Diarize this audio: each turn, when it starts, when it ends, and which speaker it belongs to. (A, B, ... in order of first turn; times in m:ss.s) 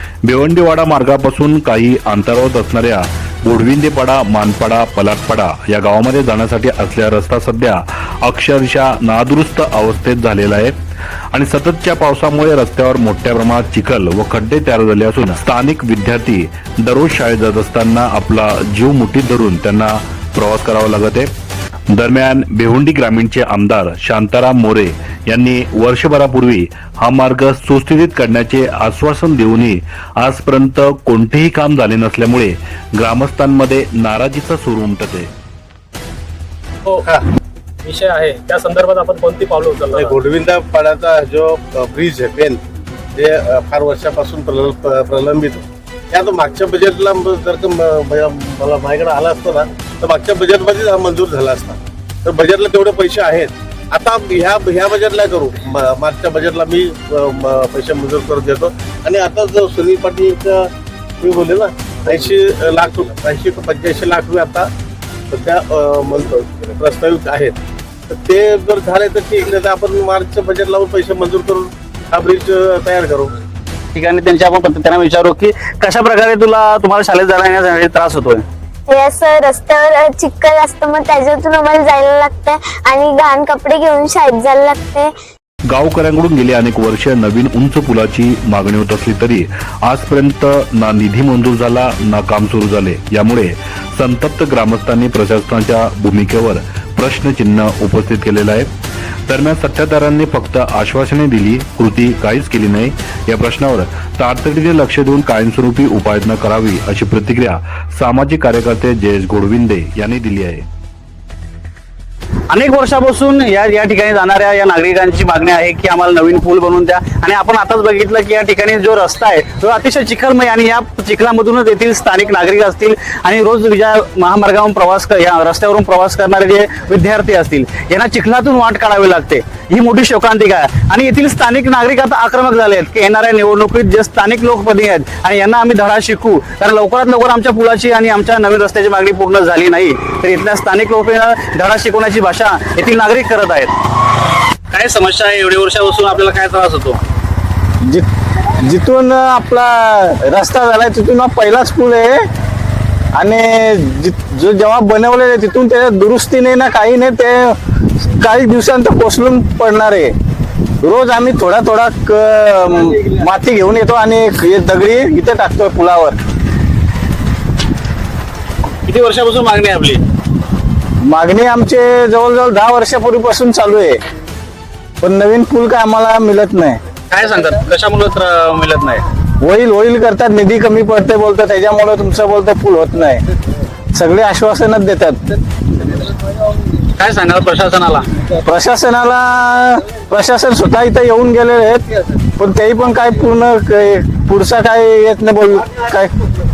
0:00.2-0:10.7 A
0:11.3-0:21.3 A
0:21.9-0:35.3 A
0:37.8-0:40.2 B
0:39.9-0:42.6 C
0:43.1-1:04.7 C
1:05.3-1:07.6 C
1:08.1-1:13.3 C
1:13.9-1:18.4 D
1:18.9-1:25.1 E
1:25.7-1:38.7 A
1:39.3-1:50.6 A
1:52.5-2:23.7 D
2:24.7-2:27.0 D
2:28.6-2:32.2 F
2:33.2-2:40.1 F
2:40.8-2:46.2 F
2:48.8-2:50.0 D
2:51.0-2:54.0 F
2:55.0-2:56.8 F
2:57.1-2:59.0 D
2:59.4-3:03.2 F
3:03.9-3:05.4 F
3:06.7-3:08.1 D
3:08.4-3:16.1 F